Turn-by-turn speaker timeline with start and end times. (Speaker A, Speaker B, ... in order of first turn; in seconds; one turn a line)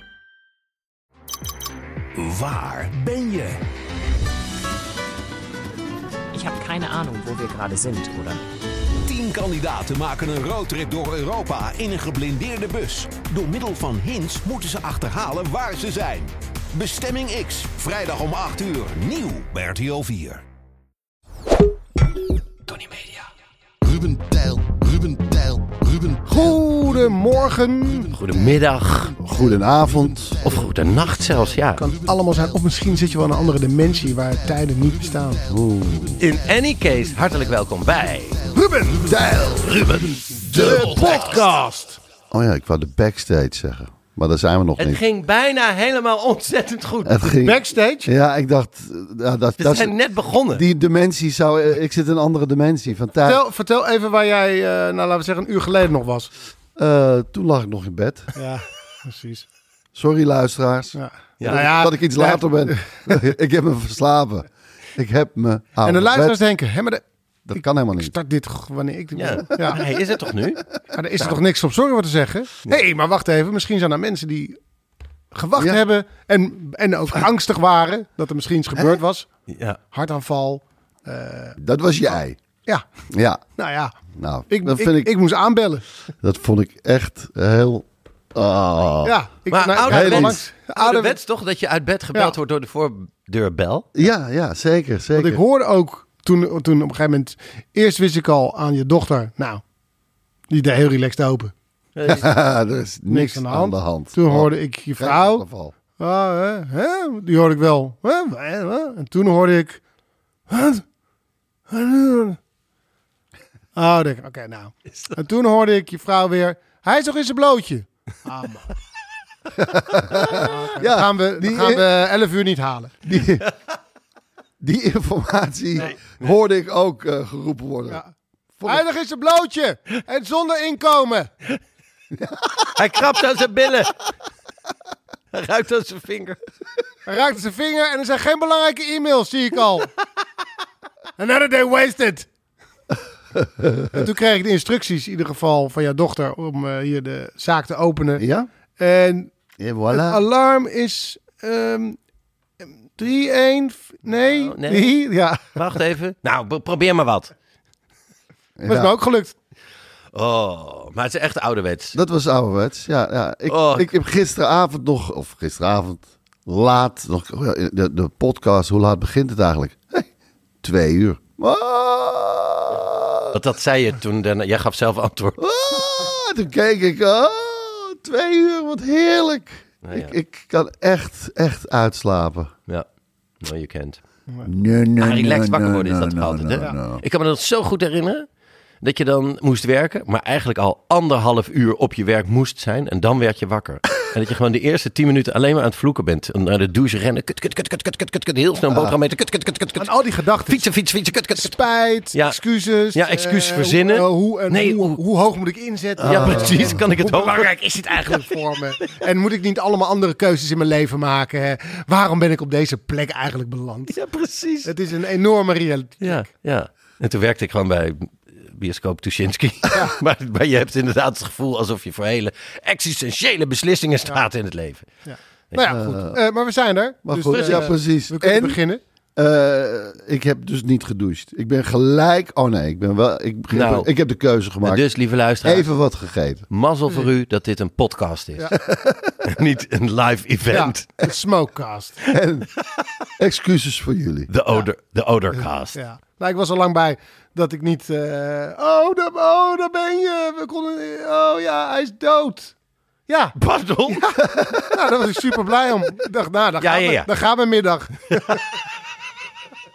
Speaker A: 2.1-3.6
Speaker B: 6.3-8.4
Speaker A: 8.9-20.4
Speaker C: 23.9-26.2
Speaker D: 26.3-28.1
Speaker E: 28.1-29.2
Speaker C: 29.2-30.5
Speaker E: 30.4-31.9
Speaker D: 31.8-35.4
Speaker C: 35.5-36.2
Speaker E: 36.2-38.5
Speaker D: 38.5-39.1
Speaker C: 39.0-41.0
Speaker E: 39.5-41.4
Speaker D: 40.5-42.0
Speaker C: 42.3-45.0
Speaker E: 44.8-47.3
Speaker C: 47.0-49.9
Speaker D: 47.4-48.1
Speaker E: 49.6-50.6
Speaker C: 50.5-53.4
Speaker D: 53.2-56.3
Speaker C: 56.8-58.3
Speaker D: 58.3-59.5
Speaker C: 59.9-66.4
Speaker D: 61.0-63.2
Speaker E: 61.4-61.7
Speaker D: 65.8-67.0
Speaker C: 67.5-68.1
Speaker D: 67.6-69.8
Speaker E: 69.1-70.7
Speaker D: 70.9-74.6
Speaker D: 75.3-79.3
Speaker C: 75.5-75.8
Speaker E: 79.5-79.8
Speaker D: 79.9-81.6
Speaker C: 81.6-82.4
Speaker C: 83.1-83.4
Speaker D: 83.6-83.9
Speaker C: 84.1-85.1
Speaker D: 84.5-85.8
Speaker C: 86.2-89.2
Speaker D: 89.0-91.2
Speaker E: 89.5-93.9
Speaker C: 89.8-90.4
Speaker C: 93.9-95.4
Speaker D: 95.1-99.6
Speaker D: 100.5-101.5
Speaker E: 102.0-102.3
Speaker C: 102.0-105.7
Speaker D: 103.1-105.4
Speaker D: 106.0-109.8
Speaker D: 110.5-110.8
Speaker D: 111.7-112.4
Speaker D: 113.7-118.7
Speaker C: 119.5-121.9
Speaker D: 120.0-122.9
Speaker C: 123.0-123.5
Speaker C: 124.6-128.0
Speaker C: 128.6-128.9
Speaker D: 128.7-131.3
Speaker C: 132.1-132.6
Speaker E: 132.7-134.0
Speaker E: 135.3-136.4
Speaker D: 137.1-139.9
Speaker D: 141.2-142.3
Speaker C: 143.4-144.0
Speaker D: 143.9-148.2
Speaker C: 148.2-148.5
Speaker D: 148.8-149.3
Speaker C: 149.6-150.2
Speaker D: 149.9-152.0
Speaker D: 152.9-155.6
Speaker E: 154.3-154.9
Speaker E: 155.5-157.3
Speaker C: 158.6-158.9
Speaker D: 158.7-159.3
Speaker E: 160.1-162.0
Speaker C: 161.9-170.1
Speaker E: 163.5-163.9
Speaker C: 170.6-173.4
Speaker E: 173.3-175.4
Speaker C: 175.4-182.5
Speaker E: 179.8-180.1
Speaker E: 183.4-184.0
Speaker C: 184.4-187.0
Speaker E: 185.0-188.3
Speaker E: 188.8-199.9
Speaker C: 198.7-198.9
Speaker D: 199.8-200.7
Speaker E: 200.5-201.6
Speaker D: 201.4-213.9
Speaker E: 202.1-202.4
Speaker E: 202.9-205.0
Speaker C: 206.0-206.8
Speaker E: 206.0-208.9
Speaker E: 213.9-214.7
Speaker D: 214.6-216.2
Speaker E: 216.0-224.9
Speaker D: 225.0-228.8
Speaker C: 225.6-226.2
Speaker C: 227.0-228.6
Speaker E: 227.3-227.8
Speaker C: 229.2-234.8
Speaker E: 233.5-233.9
Speaker E: 234.6-235.7
Speaker C: 235.4-236.5
Speaker E: 236.5-238.5
Speaker D: 238.4-238.7
Speaker E: 239.2-241.1
Speaker D: 240.5-242.0
Speaker C: 242.1-242.5
Speaker C: 243.2-244.3
Speaker E: 244.3-245.8
Speaker D: 245.8-252.5
Speaker D: 253.1-253.3
Speaker E: 253.4-254.1
Speaker D: 253.9-258.4
Speaker C: 254.2-254.5
Speaker E: 256.6-257.1